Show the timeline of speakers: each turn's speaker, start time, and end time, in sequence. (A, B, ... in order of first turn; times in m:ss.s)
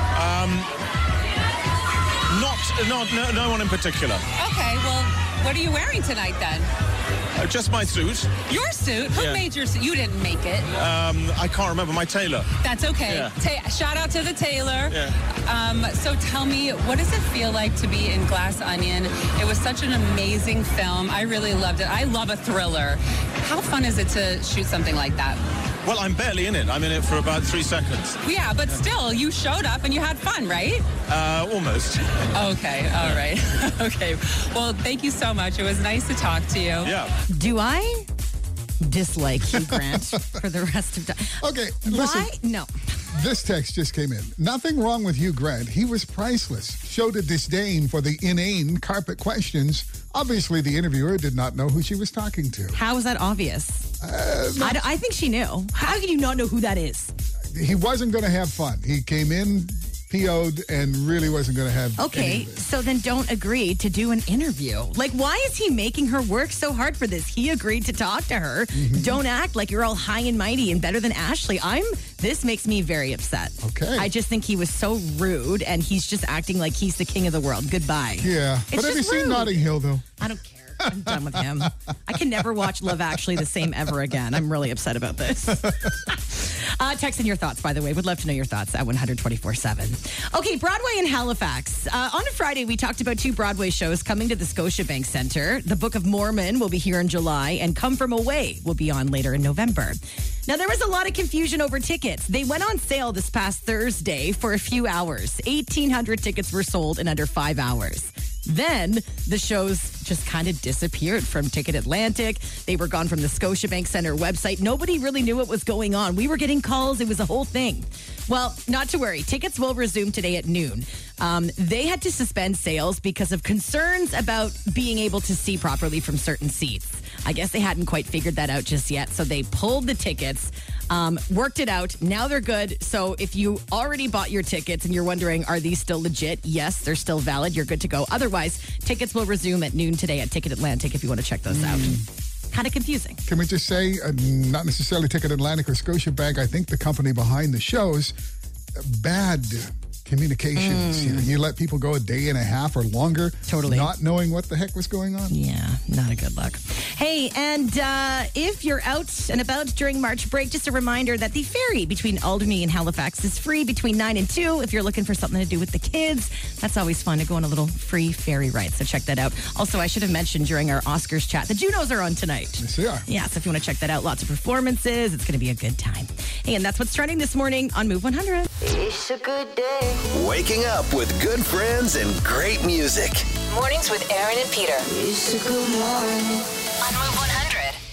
0:00.1-0:00.7 A
0:02.3-0:04.2 A
0:04.4-0:06.7 B
0:07.4-0:08.4 A
0:08.5-0:10.7 B
0:09.1-0:09.4 A
0:10.7-0:12.5 A
0:12.6-0:25.4 B
0:13.0-0:13.3 A
0:14.9-0:15.2 A
0:25.8-0:28.2 A
0:28.2-0:30.9 B
0:31.1-0:32.1 A
0:32.3-0:36.9 B
0:36.8-0:37.1 A
0:37.3-0:38.1 C
0:38.8-0:42.7 C
0:39.5-0:40.4 D
0:41.4-0:42.3 D
0:43.1-0:52.8 D
0:52.7-0:53.9 C
0:54.0-0:54.8 D
0:54.6-0:57.1 C
0:57.5-1:02.6 D
1:02.0-2:23.2 C
1:08.7-1:09.2 D
1:13.6-1:14.1 D
1:18.2-1:20.1 D
1:20.8-1:23.7 D
1:25.6-1:25.9 D
2:21.5-2:22.0 D
2:23.3-2:28.1 D
2:28.8-2:35.3 D
2:30.6-2:31.3 C
2:33.5-2:33.9 C
2:35.3-2:58.5 C
2:52.6-2:53.1 D
2:58.6-3:00.0 E
3:00.1-3:03.3 F
3:03.4-3:07.8 E